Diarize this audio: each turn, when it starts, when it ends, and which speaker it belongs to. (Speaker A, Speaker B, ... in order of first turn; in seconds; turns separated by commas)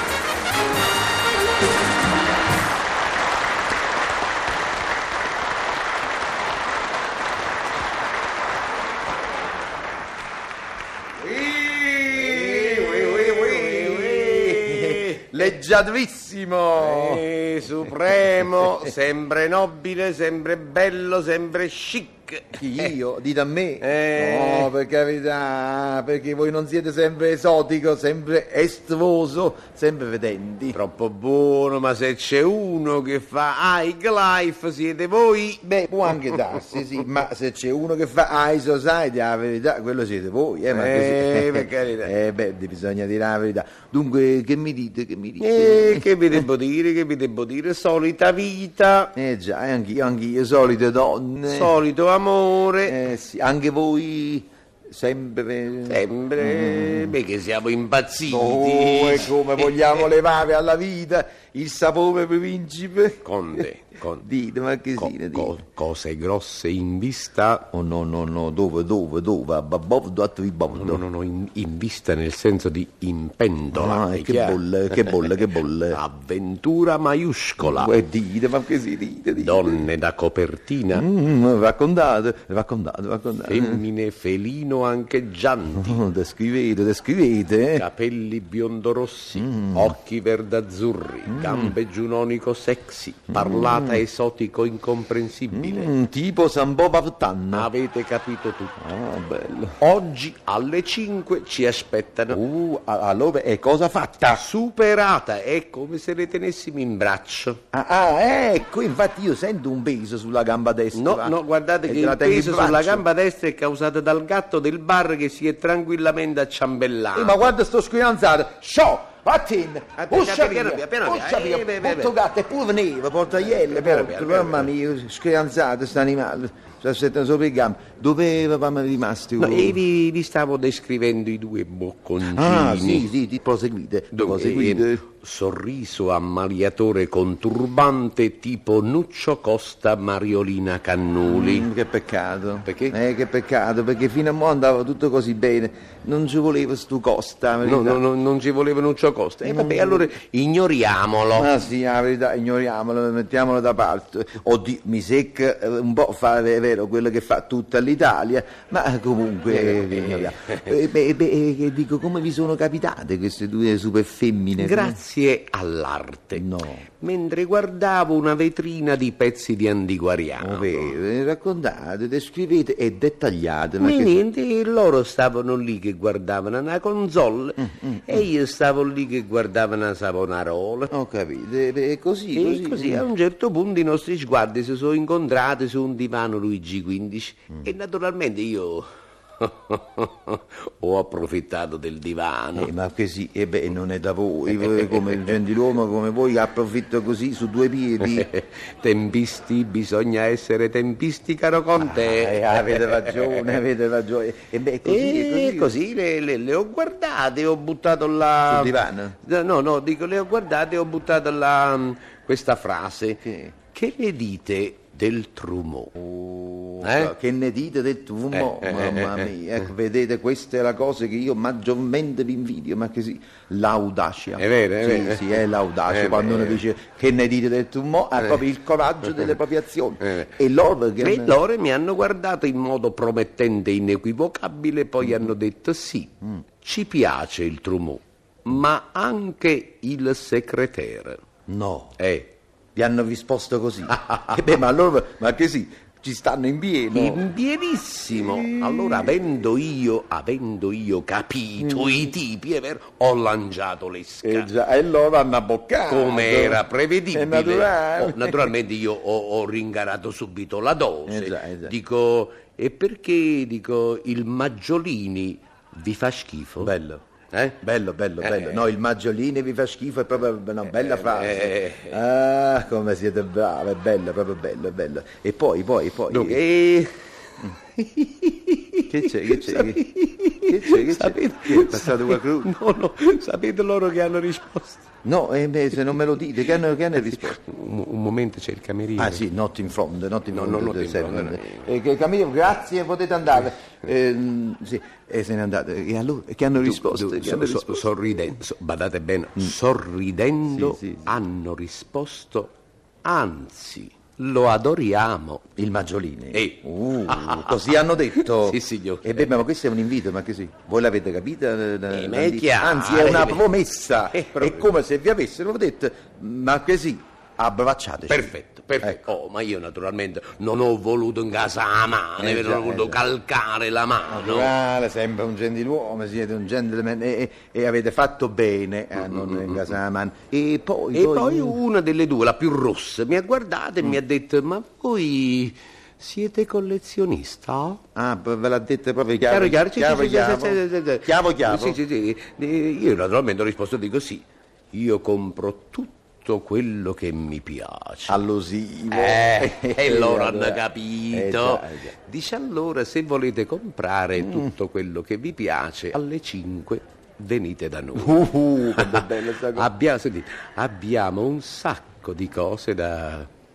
Speaker A: 11.2-15.5, Speaker B: 12.1-17.3, Speaker A: 16.8-22.9, Speaker B: 17.8-18.9, Speaker B: 22.6-30.8, Speaker A: 23.8-24.7, Speaker A: 30.7-36.4, Speaker B: 35.6-46.0, Speaker A: 40.7-42.1, Speaker A: 45.4-49.1, Speaker B: 49.2-51.8, Speaker A: 51.5-53.0, Speaker B: 52.8-57.2, Speaker A: 55.9-59.9, Speaker B: 58.2-63.6, Speaker A: 63.2-64.3, Speaker B: 64.2-65.6, Speaker A: 65.0-67.7, Speaker B: 67.7-71.0, Speaker A: 70.8-78.0, Speaker B: 73.7-76.0, Speaker B: 77.6-79.8, Speaker A: 79.4-81.1, Speaker B: 80.9-83.8, Speaker A: 83.5-86.0, Speaker B: 85.8-87.8, Speaker A: 87.7-95.9, Speaker B: 89.4-90.0, Speaker B: 91.3-91.7, Speaker B: 93.3-94.0, Speaker B: 95.5-97.7, Speaker A: 97.5-98.8, Speaker B: 98.8-99.8, Speaker A: 99.8-102.4, Speaker B: 102.3-104.4, Speaker A: 104.3-107.6, Speaker B: 107.7-113.0, Speaker A: 110.9-117.5, Speaker B: 117.1-129.8, Speaker A: 120.0-122.2, Speaker A: 123.5-124.7, Speaker A: 129.4-133.1, Speaker B: 132.2-135.0, Speaker A: 134.1-141.7, Speaker B: 141.2-148.0, Speaker A: 142.7-143.0, Speaker A: 147.6-151.6, Speaker B: 149.4-150.1, Speaker B: 151.3-165.0, Speaker A: 159.5-160.6, Speaker A: 164.6-171.0, Speaker B: 166.3-166.8, Speaker B: 170.4-174.2, Speaker A: 173.8-180.9, Speaker B: 177.7-178.3, Speaker B: 180.9-183.1, Speaker A: 182.3-188.9, Speaker A: 189.4-192.7, Speaker B: 192.6-198.3, Speaker A: 194.5-195.4, Speaker A: 198.0-203.6, Speaker B: 201.8-205.7, Speaker A: 204.8-215.9, Speaker B: 208.4-209.2, Speaker B: 213.2-213.5, Speaker B: 216.0-231.4, Speaker A: 216.8-217.1, Speaker A: 218.3-219.3, Speaker A: 224.4-226.6, Speaker A: 230.0-230.3, Speaker A: 231.0-241.2, Speaker B: 241.5-242.0, Speaker A: 242.0-242.3, Speaker B: 242.8-247.3, Speaker A: 243.9-244.4, Speaker A: 246.9-254.5, Speaker B: 248.1-249.2, Speaker B: 251.6-252.1, Speaker B: 254.2-258.6, Speaker A: 255.9-266.7, Speaker B: 261.1-261.7, Speaker B: 266.6-267.0, Speaker A: 267.3-267.6, Speaker B: 267.6-276.4, Speaker A: 268.2-268.6, Speaker A: 270.7-272.0, Speaker A: 276.1-277.1, Speaker A: 277.8-284.8, Speaker B: 278.9-279.8, Speaker B: 280.4-282.5, Speaker B: 285.0-287.4, Speaker A: 286.9-289.2, Speaker B: 289.0-297.9, Speaker A: 290.3-291.7, Speaker A: 296.6-305.4, Speaker B: 300.5-301.2, Speaker B: 305.6-319.1, Speaker A: 306.3-309.3, Speaker A: 311.9-313.4, Speaker A: 314.1-314.7, Speaker A: 318.1-324.5, Speaker B: 322.2-323.0, Speaker B: 324.1-331.6, Speaker A: 329.0-329.7, Speaker A: 330.9-337.8, Speaker B: 337.9-341.8, Speaker A: 339.3-348.2, Speaker B: 348.1-351.9, Speaker A: 348.9-363.3, Speaker B: 354.2-354.5, Speaker B: 357.9-359.7